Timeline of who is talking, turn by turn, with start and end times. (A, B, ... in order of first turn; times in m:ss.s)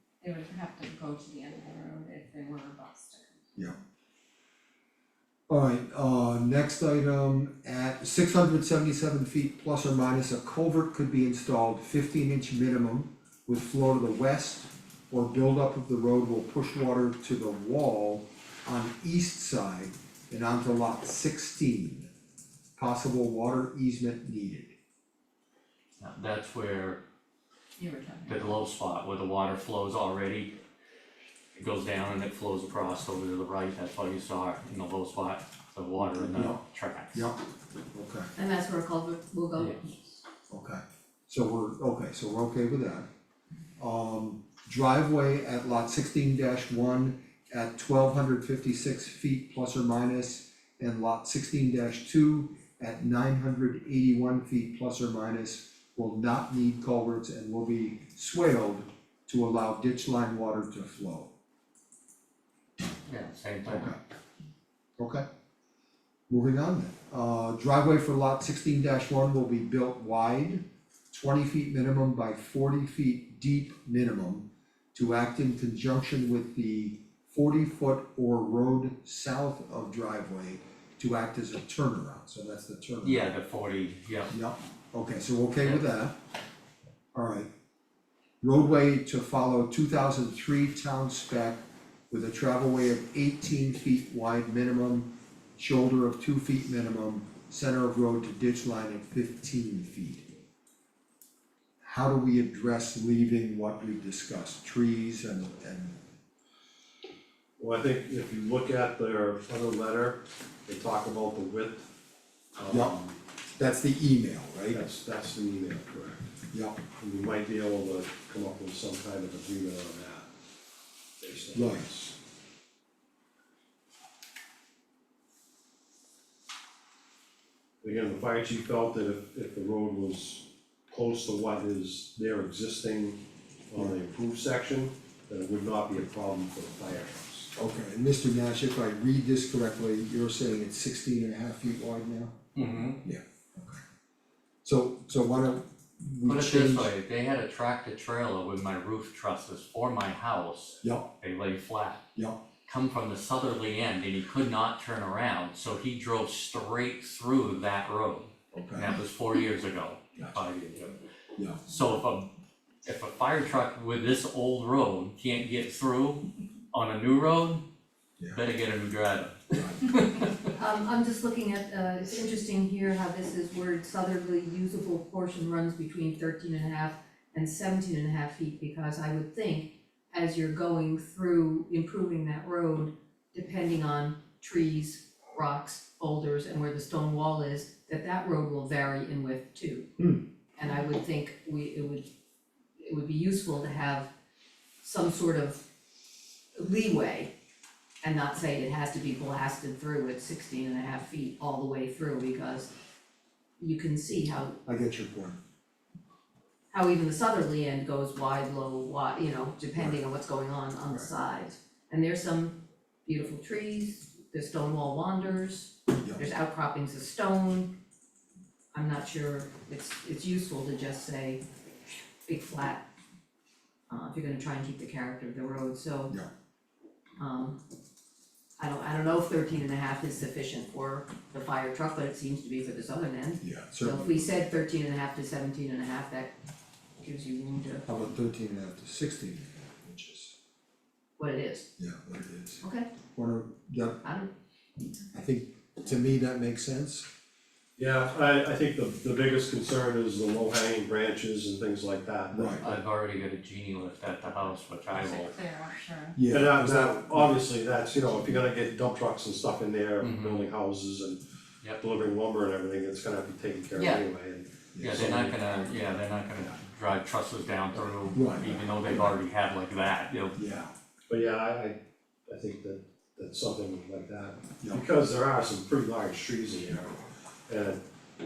0:00.2-0:03.6 A
0:05.5-0:22.1 B
0:22.8-0:24.7 B
0:26.0-0:27.0 C
0:27.8-0:28.6 A
0:28.3-0:30.5 C
0:31.5-0:37.3 C
0:36.0-0:36.6 B
0:37.1-0:37.4 B
0:37.9-0:38.3 B
0:38.4-0:40.0 D
0:40.5-0:43.0 B
0:43.8-1:01.3 B
1:03.0-1:03.9 C
1:03.6-1:04.0 B
1:05.0-1:05.2 B
1:06.3-1:23.3 B
1:23.0-1:24.3 C
1:24.3-1:26.1 B
1:27.1-1:27.5 B
1:28.4-1:40.3 B
1:41.8-1:46.0 B
1:47.6-1:51.8 E
1:52.6-1:53.2 E
1:52.7-1:52.9 B
1:53.6-1:54.8 B
1:54.7-1:56.3 E
1:56.5-1:56.8 B
1:57.0-2:00.3 E
2:01.2-2:02.1 E
2:01.5-2:01.9 B
2:07.8-2:17.5 E
2:17.5-2:22.4 B
2:22.5-2:23.0 C
2:23.0-2:23.8 B
2:24.6-2:26.9 B
2:26.2-2:32.0 C
2:32.7-2:41.0 C
2:38.5-2:39.0 B
2:41.4-2:41.6 B
2:41.6-2:42.3 C
2:42.8-2:47.6 C
2:48.3-2:50.5 C
2:49.5-2:49.8 B
2:50.6-3:09.9 D
3:10.6-3:12.1 D
3:12.8-3:14.1 D
3:14.8-3:15.6 D
3:16.5-3:17.3 D
3:18.0-3:22.7 D
3:23.6-3:24.6 D
3:24.6-3:25.4 B
3:26.7-3:37.7 D
3:36.0-3:36.2 B
3:38.7-3:41.4 D
3:42.2-3:42.8 D
3:43.9-3:46.1 D
3:47.2-3:47.6 D
3:48.6-3:56.3 D
3:53.4-3:54.3 B
3:57.0-3:57.8 D
3:57.9-4:00.3 B
4:01.2-4:01.7 D
4:01.8-4:02.6 B
4:02.6-4:02.9 D
4:03.1-4:04.0 B
4:04.0-4:04.3 D
4:05.1-4:07.1 B
4:07.8-4:12.6 E
4:12.3-4:12.6 B
4:12.6-4:15.3 C
4:14.9-4:16.2 A
4:16.2-4:17.3 B
4:16.3-4:21.2 E
4:20.0-4:20.5 C
4:21.8-4:25.3 E
4:24.7-4:25.2 B
4:24.8-4:30.4 C
4:28.1-4:29.1 B
4:30.3-4:30.7 B
4:31.1-4:37.8 E